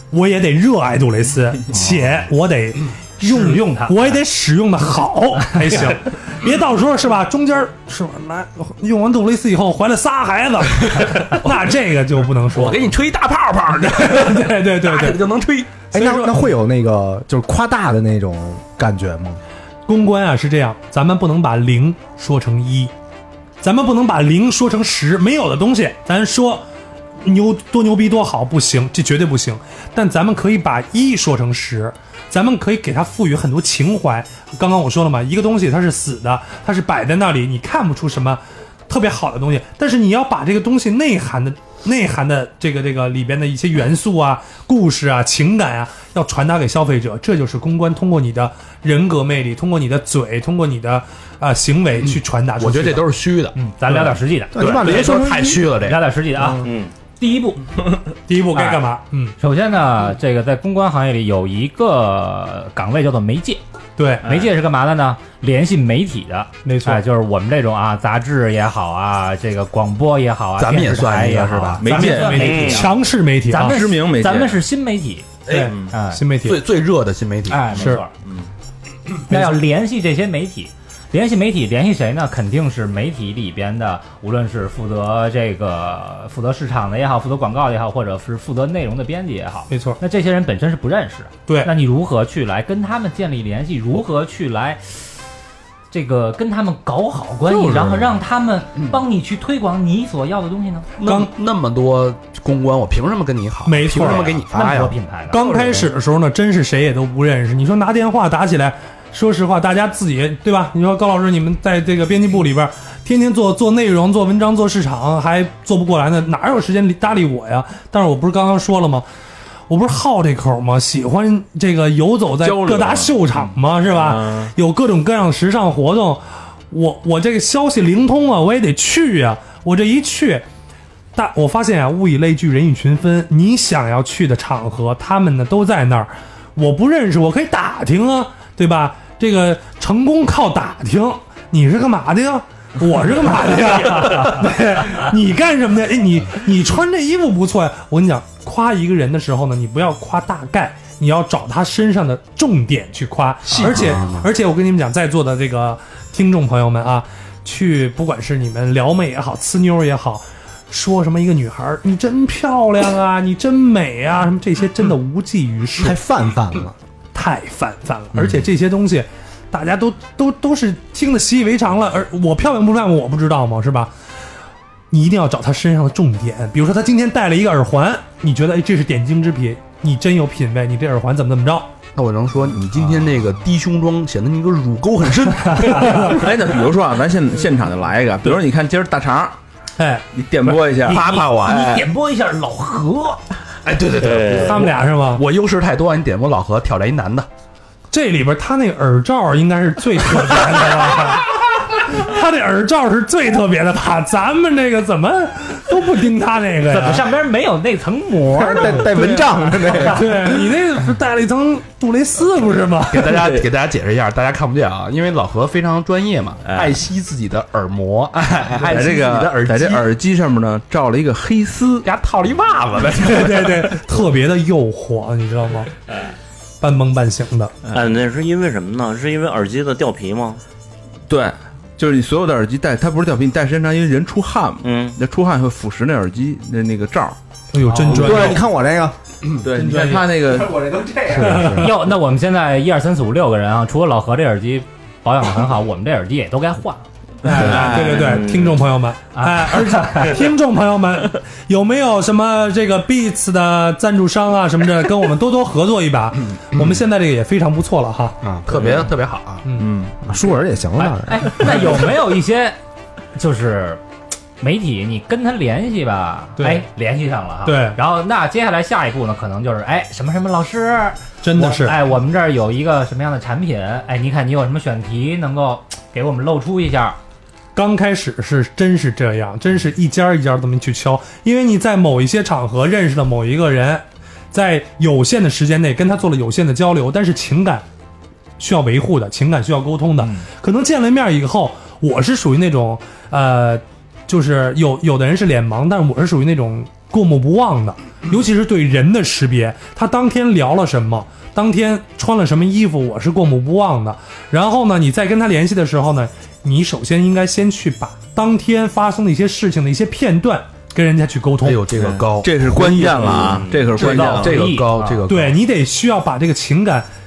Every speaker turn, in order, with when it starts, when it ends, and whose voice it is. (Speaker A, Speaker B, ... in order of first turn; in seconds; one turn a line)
Speaker A: 0.1-12.9
Speaker B: 3.3-4.1
Speaker C: 12.5-15.7
Speaker A: 13.8-15.2
Speaker A: 15.9-16.5
Speaker D: 15.9-19.4
Speaker A: 19.9-22.9
Speaker A: 23.6-26.6
Speaker A: 27.2-53.0
Speaker C: 52.0-56.6
Speaker B: 53.5-57.7
Speaker D: 54.5-55.7
Speaker E: 56.6-56.9
Speaker A: 58.3-59.3
Speaker B: 58.5-58.8
Speaker B: 59.4-63.6
Speaker A: 64.0-64.2
Speaker B: 64.2-73.0
Speaker A: 66.6-67.0
Speaker C: 70.6-71.9
Speaker F: 71.8-72.7
Speaker A: 71.8-73.8
Speaker E: 72.4-72.9
Speaker B: 73.5-75.3
Speaker F: 73.6-74.6
Speaker A: 75.5-76.6
Speaker F: 75.5-75.9
Speaker B: 75.9-76.2
Speaker C: 76.4-77.9
Speaker B: 77.5-78.1
Speaker A: 77.7-78.0
Speaker F: 78.2-78.5
Speaker B: 79.3-94.8
Speaker A: 79.3-79.6
Speaker A: 89.7-90.0
Speaker B: 95.9-100.9
Speaker C: 97.5-98.2
Speaker C: 101.0-105.9
Speaker A: 101.0-101.3
Speaker A: 103.7-104.4
Speaker B: 103.9-105.5
Speaker A: 105.3-119.0
Speaker A: 119.7-130.4
Speaker F: 122.4-123.4
Speaker F: 123.9-124.5
Speaker A: 131.1-166.0
Speaker C: 153.4-154.3
Speaker D: 165.8-166.7
Speaker A: 167.1-173.9
Speaker A: 174.9-181.7
Speaker C: 181.9-186.2
Speaker F: 185.8-189.3
Speaker A: 189.8-190.6
Speaker F: 190.1-191.8
Speaker C: 190.8-191.7
Speaker B: 190.8-193.2
Speaker C: 193.6-197.3
Speaker E: 194.0-194.7
Speaker A: 194.3-195.2
Speaker A: 197.9-207.1
Speaker B: 206.7-209.9
Speaker D: 208.3-210.4
Speaker A: 209.7-213.2
Speaker C: 212.9-219.9
Speaker F: 213.2-213.5
Speaker F: 216.5-216.7
Speaker F: 218.5-221.9
Speaker C: 221.8-223.8
Speaker A: 223.0-225.7
Speaker A: 226.6-227.5
Speaker E: 227.7-230.4
Speaker F: 231.1-237.2
Speaker E: 234.6-235.0
Speaker A: 237.5-238.4
Speaker D: 237.8-238.9
Speaker F: 237.9-238.3
Speaker C: 237.9-238.3
Speaker F: 239.4-240.7
Speaker A: 239.6-240.0
Speaker D: 240.3-241.7
Speaker C: 241.1-241.7
Speaker A: 241.2-241.6
Speaker B: 241.6-246.8
Speaker A: 247.2-258.2
Speaker F: 247.2-248.2
Speaker E: 247.8-248.7
Speaker B: 249.1-250.2
Speaker C: 258.4-259.4
Speaker F: 258.5-258.8
Speaker F: 259.6-259.9
Speaker D: 260.1-261.6
Speaker B: 260.8-262.6
Speaker B: 263.1-263.8
Speaker B: 264.4-277.0
Speaker A: 266.4-266.6
Speaker A: 267.4-267.8
Speaker A: 271.2-271.8
Speaker A: 277.5-287.6
Speaker A: 288.4-311.6
Speaker C: 311.4-315.4
Speaker F: 311.8-314.5
Speaker E: 313.2-313.7
Speaker B: 313.7-315.0
Speaker A: 315.1-316.9